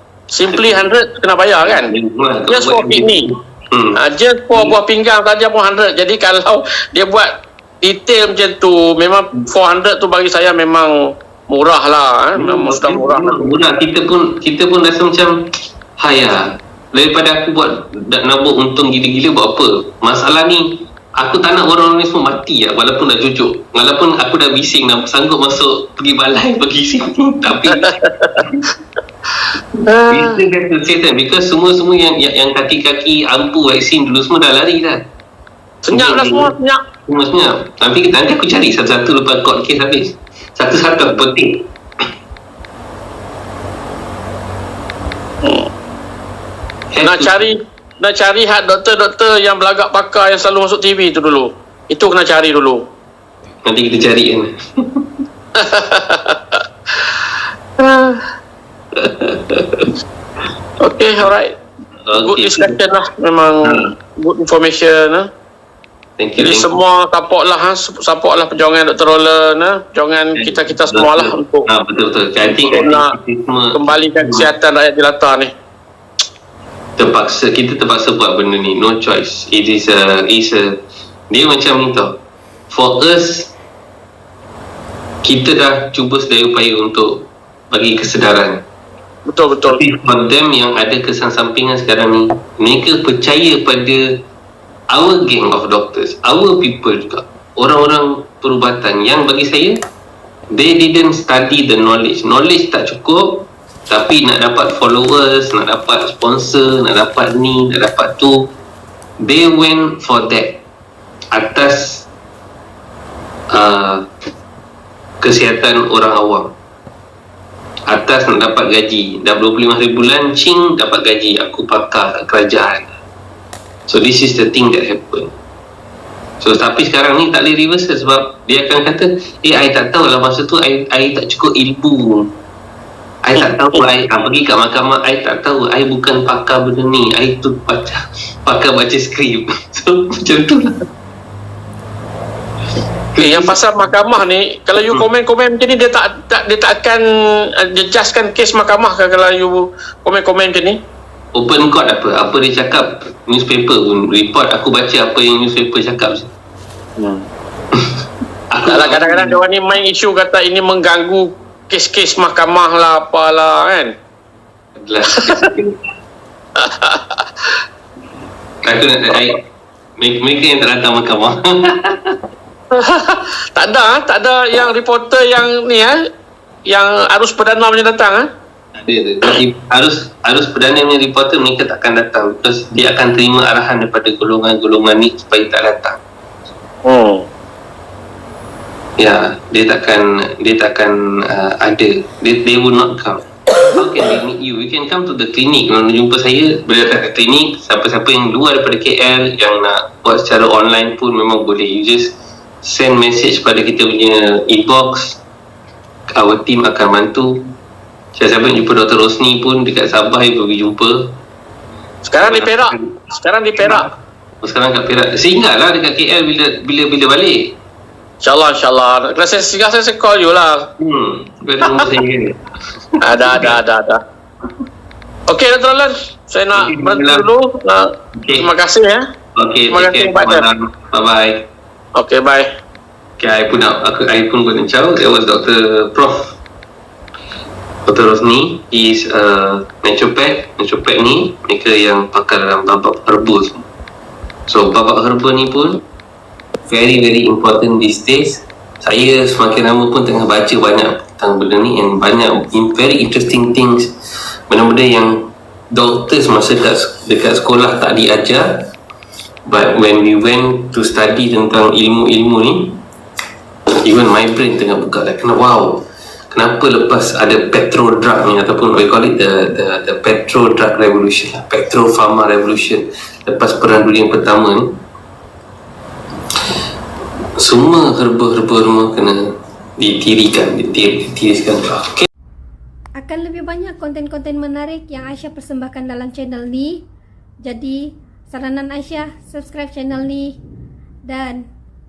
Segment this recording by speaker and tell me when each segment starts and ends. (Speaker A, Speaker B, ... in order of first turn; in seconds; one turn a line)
Speaker A: 0.3-1.9
Speaker B: 0.5-0.8
Speaker B: 1.6-4.0
Speaker A: 2.5-3.3
Speaker A: 4.0-10.9
Speaker A: 11.5-13.3
Speaker B: 12.3-15.3
Speaker B: 16.0-28.7
Speaker A: 27.7-28.4
Speaker A: 29.9-30.4
Speaker B: 30.1-35.0
Speaker A: 35.9-36.8
Speaker B: 35.9-36.5
Speaker B: 37.0-41.7
Speaker A: 45.4-45.7
Speaker B: 46.9-47.4
Speaker A: 47.0-52.8
Speaker B: 53.6-55.1
Speaker A: 55.5-57.1
Speaker A: 57.8-58.2
Speaker B: 58.9-59.9
Speaker A: 60.8-61.5
Speaker B: 62.0-62.8
Speaker A: 62.2-65.3
Speaker B: 63.6-63.9
Speaker B: 66.2-66.7
Speaker A: 66.4-71.7
Speaker B: 70.3-74.5
Speaker A: 72.5-73.1
Speaker A: 73.7-75.5
Speaker B: 77.0-82.2
Speaker B: 82.7-83.5
Speaker B: 85.2-88.6
Speaker A: 89.3-89.8
Speaker B: 89.7-94.1
Speaker B: 94.9-99.8
Speaker B: 100.5-108.5
Speaker B: 109.2-110.6
Speaker B: 111.3-112.1
Speaker B: 113.5-114.1
Speaker B: 115.2-116.6
Speaker B: 117.9-122.9
Speaker B: 123.9-125.3
Speaker B: 126.4-132.3
Speaker B: 133.2-140.8
Speaker A: 133.4-133.8
Speaker B: 143.1-143.6
Speaker A: 143.2-147.0
Speaker A: 147.6-150.8
Speaker B: 151.3-156.3
Speaker A: 157.0-157.2
Speaker B: 158.5-159.4
Speaker A: 158.7-163.9
Speaker B: 164.8-165.8
Speaker A: 165.1-165.5
Speaker A: 166.6-167.2
Speaker B: 168.6-169.4
Speaker B: 170.0-172.2
Speaker A: 172.7-176.0
Speaker A: 176.7-178.3
Speaker B: 178.7-186.0
Speaker A: 186.8-187.3
Speaker B: 189.0-205.2
Speaker B: 206.1-207.4
Speaker B: 208.1-211.2
Speaker A: 212.0-213.9
Speaker B: 212.2-212.9
Speaker B: 213.6-217.6
Speaker A: 218.2-220.7
Speaker B: 220.8-222.4
Speaker B: 222.9-223.6
Speaker A: 223.0-224.0
Speaker A: 225.3-229.0
Speaker B: 226.5-227.2
Speaker B: 228.2-228.5
Speaker B: 229.3-231.5
Speaker A: 229.7-230.4
Speaker A: 231.9-232.5
Speaker B: 233.2-236.4
Speaker B: 237.8-243.7
Speaker B: 244.5-245.8
Speaker B: 246.7-253.9
Speaker B: 254.5-258.7
Speaker B: 259.4-262.8
Speaker B: 263.8-274.8
Speaker B: 277.4-282.1
Speaker C: 282.9-286.8
Speaker C: 287.4-290.4
Speaker C: 291.1-291.5